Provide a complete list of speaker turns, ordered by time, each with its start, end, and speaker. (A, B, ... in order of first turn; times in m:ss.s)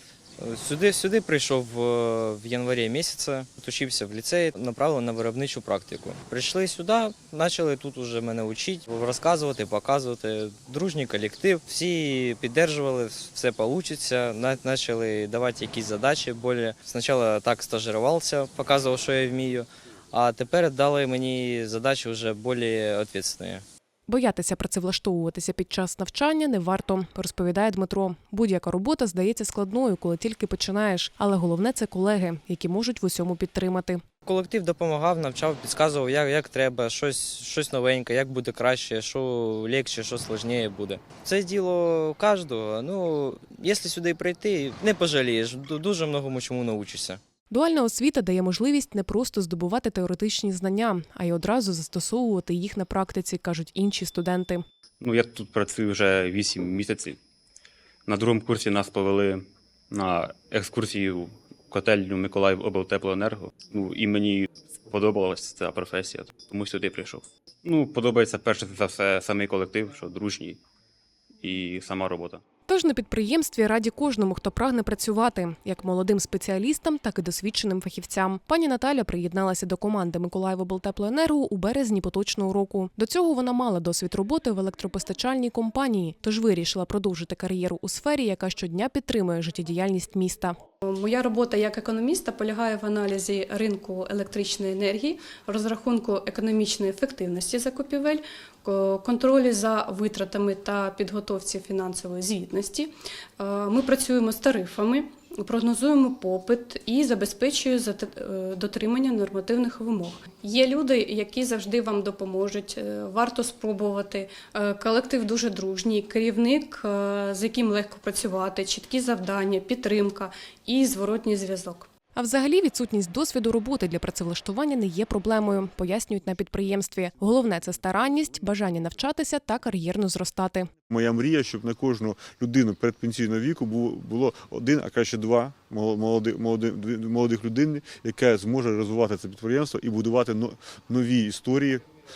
0:00.4-0:23.6 A
0:24.1-0:34.0 B
0:34.2-0:47.2 A
0:47.5-0:54.6 B
0:55.0-0:57.2 C
0:58.1-1:10.6 C
1:11.4-1:12.4 C
1:12.7-1:30.6 B
1:30.8-2:01.9 D
2:02.1-2:10.7 B
2:10.9-2:21.8 E